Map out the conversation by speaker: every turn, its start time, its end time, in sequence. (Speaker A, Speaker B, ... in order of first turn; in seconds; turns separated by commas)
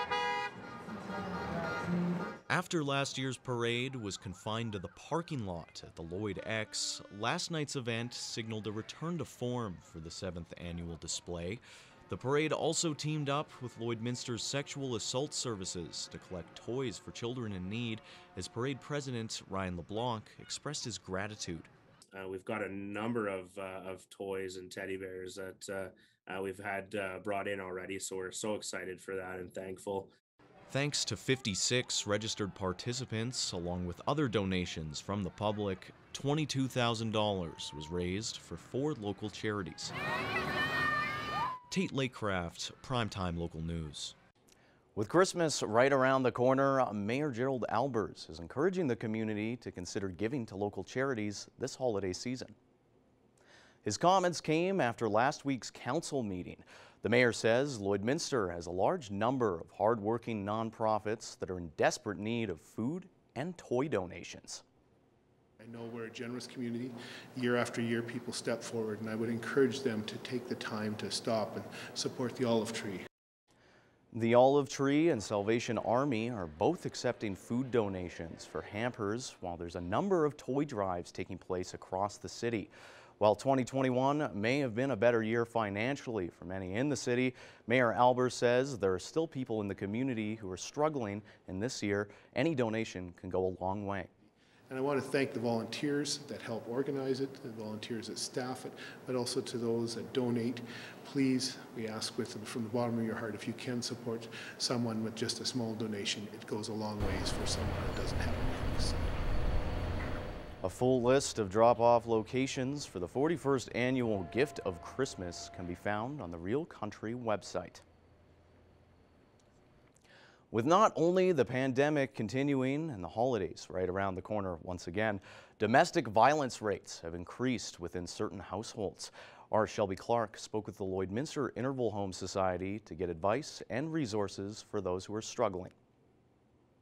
Speaker A: 2.5-21.7, Speaker B: 22.1-30.1, Speaker A: 30.7-39.9, Speaker A: 41.7-44.1, Speaker A: 44.9-52.5, Speaker A: 53.8-64.6, Speaker C: 65.6-73.0, Speaker A: 74.1-94.1, Speaker C: 94.7-109.0, Speaker A: 110.6-117.8, Speaker A: 120.5-135.7